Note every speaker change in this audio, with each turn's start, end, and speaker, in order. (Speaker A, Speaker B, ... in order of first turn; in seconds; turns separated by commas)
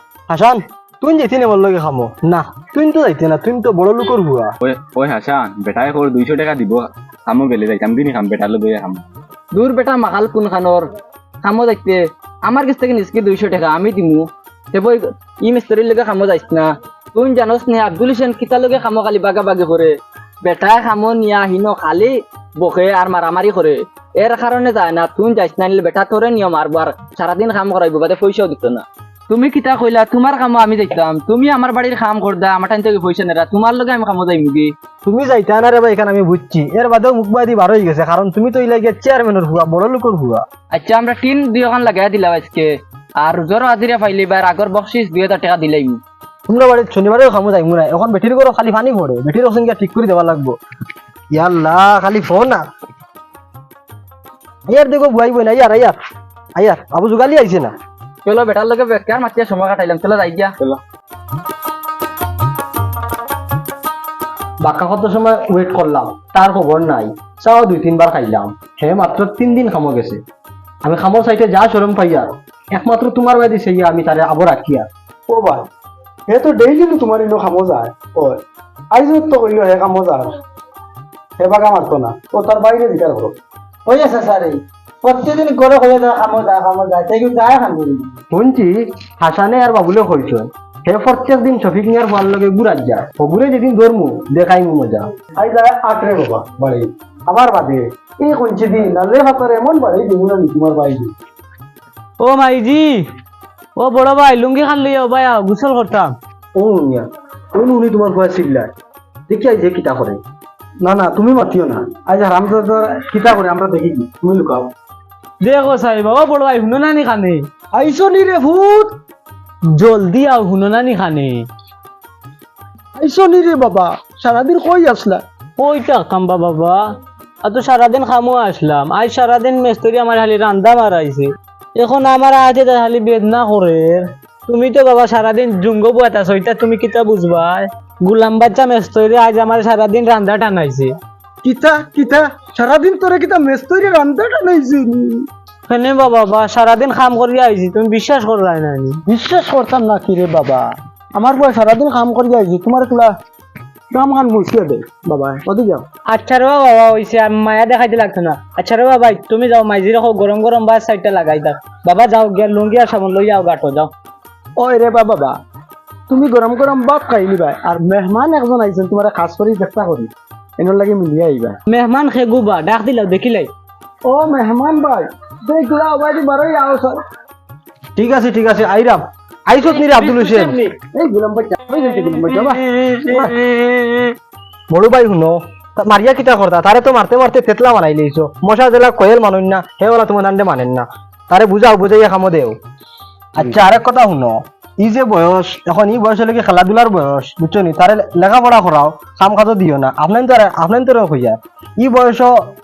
Speaker A: 0.3-4.5, Speaker B: 4.6-9.0, Speaker C: 9.5-10.9, Speaker C: 11.4-34.7, Speaker A: 35.0-40.5, Speaker C: 40.7-46.0, Speaker A: 46.5-50.5, Speaker A: 51.3-52.6, Speaker A: 54.7-56.0, Speaker A: 56.5-57.7, Speaker C: 58.2-60.6, Speaker A: 64.6-70.2, Speaker A: 70.8-74.9, Speaker D: 75.3-75.7, Speaker D: 76.3-78.4, Speaker D: 78.9-80.4, Speaker D: 81.4-83.4, Speaker E: 83.9-88.1, Speaker A: 88.3-95.1, Speaker D: 95.3-101.1, Speaker E: 102.2-103.1, Speaker E: 103.8-106.2, Speaker A: 106.6-108.7, Speaker A: 109.3-110.2, Speaker D: 110.8-114.7, Speaker E: 115.4-117.4, Speaker D: 117.7-119.0, Speaker E: 119.7-121.5, Speaker D: 123.0-125.2, Speaker E: 125.6-126.8, Speaker E: 127.4-140.9, Speaker D: 141.4-145.3, Speaker E: 145.7-149.0, Speaker D: 149.1-153.1, Speaker D: 153.9-155.8, Speaker E: 156.1-163.9, Speaker D: 164.6-165.4, Speaker D: 166.1-171.6, Speaker E: 171.7-173.5, Speaker D: 174.1-177.0, Speaker A: 178.0-180.6, Speaker E: 179.6-180.7, Speaker D: 180.9-182.6, Speaker E: 182.0-184.2, Speaker A: 184.7-192.6, Speaker A: 193.3-202.3